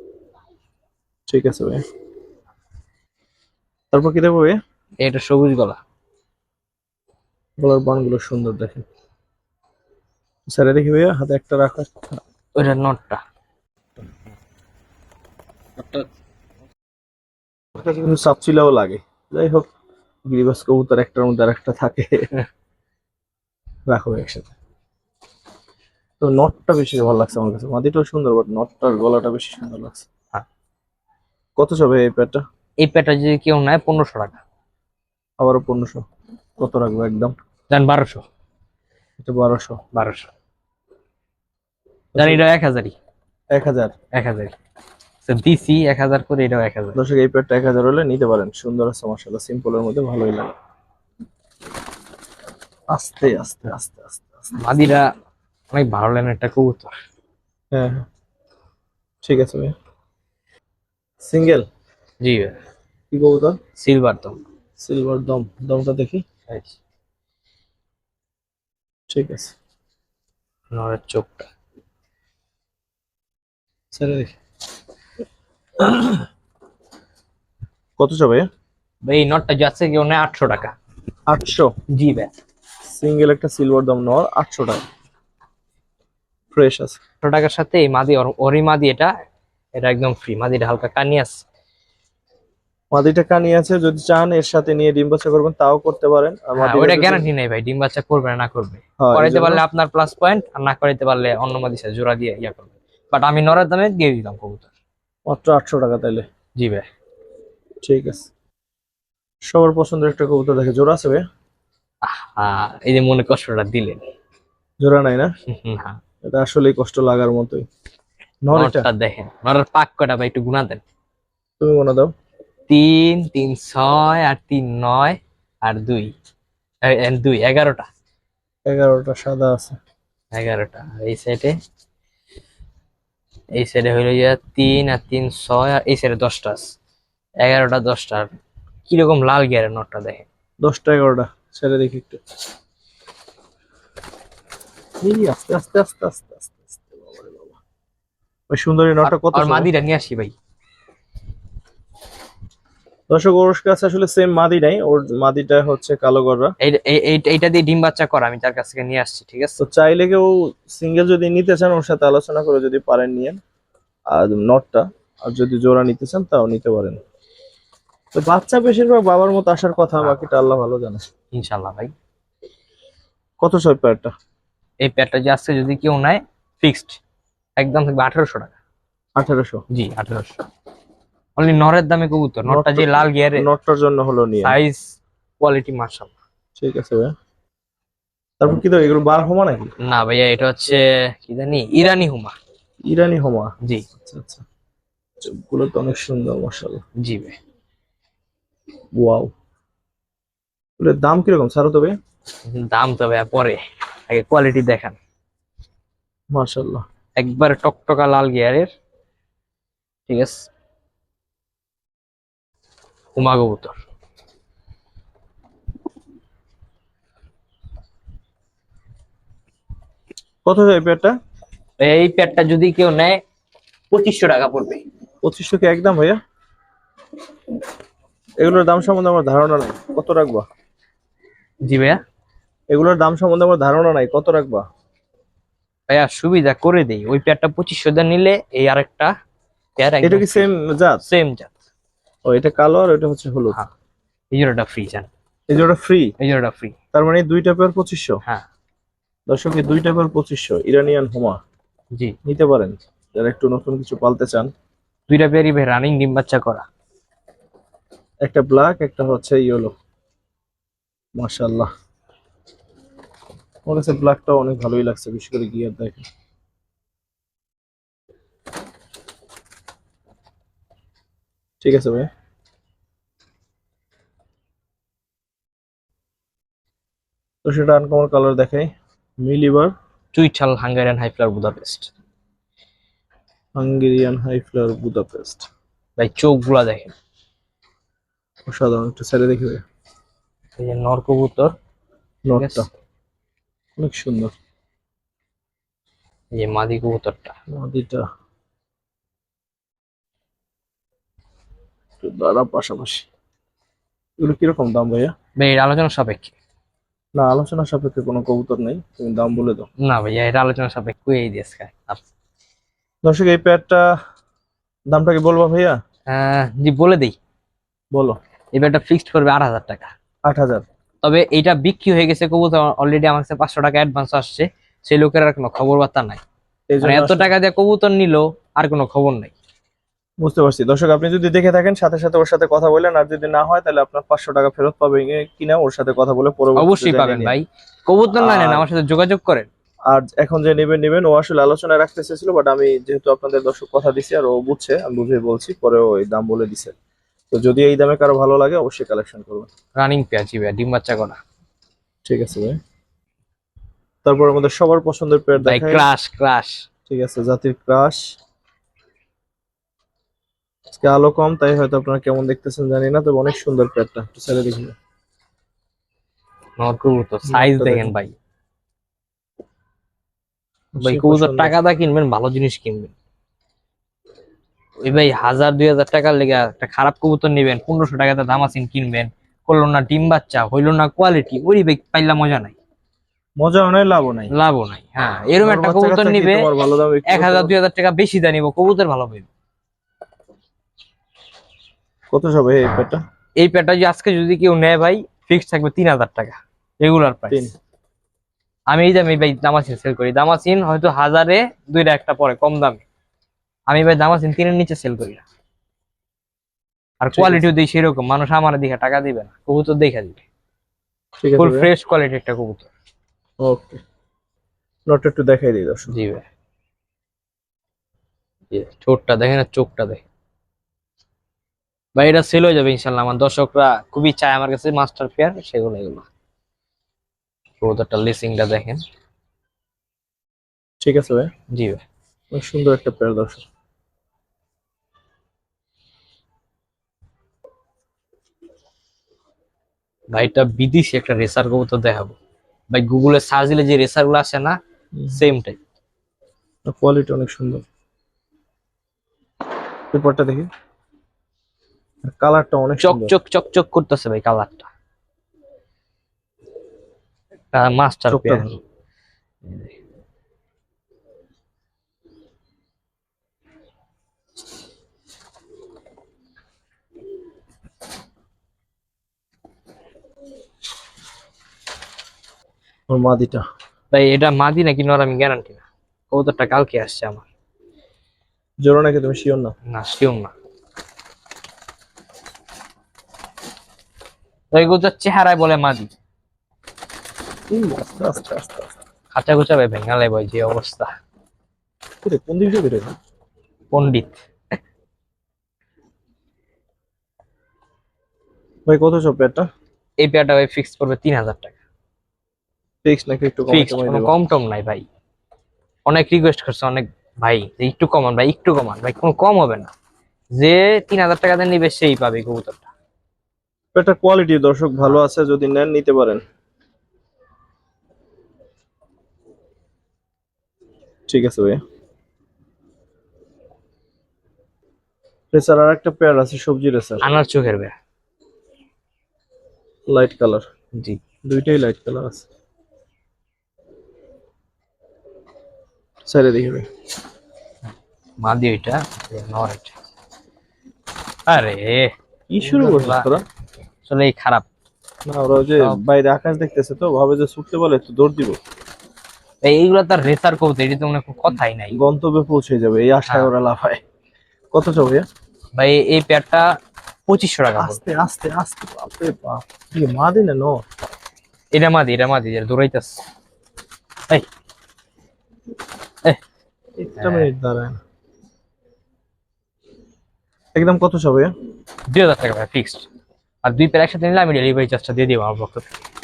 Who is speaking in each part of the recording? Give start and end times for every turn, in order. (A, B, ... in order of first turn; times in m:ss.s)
0:01.3-0:01.8 A
0:03.9-0:04.6 A
0:05.0-0:05.8 B
0:07.6-0:08.8 A
0:10.5-0:12.2 A
0:12.6-0:13.2 B
0:15.8-0:16.0 B
0:17.8-0:19.7 A
0:20.3-0:22.3 A
0:23.9-0:24.5 A
0:26.2-0:30.1 A
0:31.6-0:32.4 A
0:32.8-0:34.4 B
0:35.4-0:36.0 A
0:36.6-0:37.4 A
0:37.7-0:38.2 B
0:39.2-0:39.8 A
0:39.9-0:40.3 B
0:42.1-0:42.4 A
0:42.2-0:43.0 B
0:43.5-0:43.9 A
0:44.1-0:44.5 B
0:45.2-0:47.0 B
0:47.0-0:50.6 A
0:52.9-0:54.6 A
0:54.6-0:55.1 B
0:55.7-0:57.0 B
0:57.7-0:58.1 A
0:59.2-0:59.8 A
1:01.2-1:01.7 A
1:02.2-1:02.6 B
1:03.1-1:03.6 A
1:03.8-1:04.4 B
1:04.8-1:06.2 A
1:06.5-1:06.8 B
1:09.1-1:09.5 A
1:10.7-1:11.5 B
1:13.9-1:14.3 A
1:15.8-1:16.3 A
1:18.0-1:18.5 A
1:19.0-1:20.7 B
1:21.3-1:21.7 A
1:21.9-1:22.3 B
1:22.9-1:24.9 A
1:26.5-1:27.0 A
1:27.2-1:29.1 B
1:29.8-1:31.4 B
1:32.9-1:37.3 A
1:36.6-1:44.7 B
1:39.0-1:39.6 A
1:45.3-1:46.3 A
1:46.6-1:46.9 B
1:47.8-1:48.3 A
1:49.5-1:51.2 A
1:52.0-1:54.0 B
1:54.8-1:55.3 A
1:55.5-1:56.0 B
1:56.2-1:57.7 A
1:58.4-1:58.9 A
1:58.5-2:00.8 B
2:01.6-2:02.1 A
2:02.7-2:06.1 B
2:06.8-2:07.9 B
2:08.7-2:09.8 A
2:10.3-2:11.6 B
2:13.6-2:16.8 B
2:17.4-2:18.3 B
2:18.9-2:20.3 B
2:20.6-2:22.2 A
2:25.0-2:27.6 A
2:28.5-2:29.7 A
2:29.0-2:30.3 B
2:33.1-2:36.5 A
2:36.6-2:39.6 B
2:39.6-2:43.4 A
2:44.1-2:47.0 A
2:48.1-2:51.0 A
2:51.3-2:51.9 B
2:53.4-2:54.1 A
2:54.8-2:57.0 B
2:57.6-2:58.6 B
2:59.2-2:59.6 A
2:59.7-3:00.4 B
3:01.4-3:03.5 B
3:02.5-3:04.6 A
3:04.4-3:06.1 B
3:06.6-3:07.2 A
3:08.4-3:09.7 A
3:09.8-3:12.4 B
3:12.8-3:14.4 A
3:15.2-3:16.8 A
3:17.0-3:17.4 B
3:19.0-3:19.3 A
3:20.8-3:22.0 A
3:22.5-3:25.0 B
3:26.3-3:26.8 A
3:27.2-3:28.7 B
3:30.1-3:30.5 B
3:33.2-3:33.8 B
3:40.4-3:41.2 A
3:41.8-3:43.2 B
3:43.9-3:44.8 B
3:45.2-3:46.2 A
3:48.4-3:50.5 A
3:51.6-3:52.0 B
3:52.7-3:54.6 A
3:55.9-3:59.1 B
3:59.8-4:00.5 B
4:00.0-4:01.0 A
4:01.0-4:01.6 B
4:02.3-4:03.6 A
4:04.3-4:05.1 B
4:05.5-4:06.1 A
4:06.2-4:06.8 B
4:06.9-4:08.2 A
4:09.3-4:11.4 A
4:12.2-4:14.5 A
4:15.1-4:16.7 B
4:18.2-4:19.7 A
4:21.2-4:21.7 A
4:23.7-4:26.1 A
4:31.6-4:32.1 A
4:37.4-4:39.7 A
4:40.1-4:41.9 B
4:43.6-4:45.5 A
4:46.0-4:46.9 B
4:48.5-4:49.6 A
4:50.6-4:51.6 B
4:52.3-4:52.7 A
4:52.4-4:52.7 B
4:53.8-4:54.3 A
4:56.3-4:57.4 B
4:57.5-4:58.1 A
5:02.0-5:03.1 A
5:04.2-5:05.1 A
5:05.4-5:06.3 B
5:07.2-5:09.7 A
5:09.8-5:12.0 B
5:13.0-5:13.9 A
5:14.9-5:15.8 A
5:16.1-5:17.2 B
5:17.9-5:18.2 A
5:18.5-5:19.9 B
5:20.3-5:20.6 A
5:21.0-5:26.2 B
5:26.7-5:27.3 A
5:26.8-5:29.3 B
5:30.2-5:37.4 A
5:36.6-5:39.5 B
5:38.2-5:38.7 A
5:39.9-5:46.8 A
5:47.3-5:49.5 A
5:49.8-5:51.2 B
5:52.0-5:52.6 A
5:54.0-5:55.9 A
5:55.4-5:56.6 B
5:56.9-5:58.1 A
6:00.7-6:04.8 A
6:06.6-6:08.2 B
6:07.3-6:07.9 A
6:10.8-6:11.6 A
6:10.8-6:12.9 B
6:14.8-6:22.6 B
6:23.4-6:24.3 A
6:24.3-6:26.5 B
6:25.4-6:27.5 A
6:27.1-6:29.3 B
6:32.1-6:33.0 A
6:33.4-6:37.5 B
6:38.7-6:42.8 B
6:43.7-6:45.2 B
6:47.0-6:50.2 B
6:47.2-6:47.5 A
6:51.2-6:51.7 A
6:51.4-6:52.7 B
6:53.4-6:53.8 A
6:54.9-6:55.9 A
6:55.9-6:56.3 B
6:58.5-7:00.0 B
7:02.0-7:06.1 B
7:07.6-7:08.8 B
7:10.8-7:11.3 A
7:11.5-7:11.8 B
7:12.3-7:13.5 A
7:20.1-7:22.2 B
7:22.7-7:24.6 B
7:25.0-7:25.2 A
7:25.1-7:25.6 B
7:26.7-7:27.6 A
7:29.9-7:30.5 A
7:32.0-7:33.2 A
7:32.8-7:34.7 B
7:37.5-7:38.6 B
7:38.1-7:38.5 A
7:52.9-7:53.4 A
7:53.9-7:57.3 B
7:58.6-7:59.6 A
7:59.7-8:00.3 B
8:04.5-8:05.9 B
8:07.5-8:08.8 A
8:09.1-8:10.9 B
8:12.0-8:13.0 A
8:13.7-8:14.2 B
8:18.7-8:19.5 A
8:20.0-8:21.6 B
8:22.8-8:24.1 A
8:23.5-8:24.9 B
8:25.9-8:29.7 B
8:30.4-8:32.7 B
8:33.7-8:36.2 A
8:41.1-8:41.6 A
8:45.3-8:47.0 A
8:47.0-8:47.8 B
8:49.9-8:50.5 A
8:50.7-8:51.0 B
8:51.2-8:52.3 A
8:56.0-8:56.7 A
8:58.2-8:59.7 B
9:01.3-9:03.1 B
9:02.3-9:03.2 A
9:03.9-9:04.5 B
9:05.1-9:08.4 A
9:09.4-9:11.8 B
9:11.8-9:13.8 A
9:14.5-9:15.1 A
9:15.6-9:16.5 B
9:17.1-9:17.8 B
9:17.6-9:20.6 A
9:21.5-9:23.0 B
9:26.8-9:27.8 A
9:27.0-9:27.3 B
9:30.5-9:31.3 A
9:31.9-9:32.9 B
9:33.4-9:35.7 B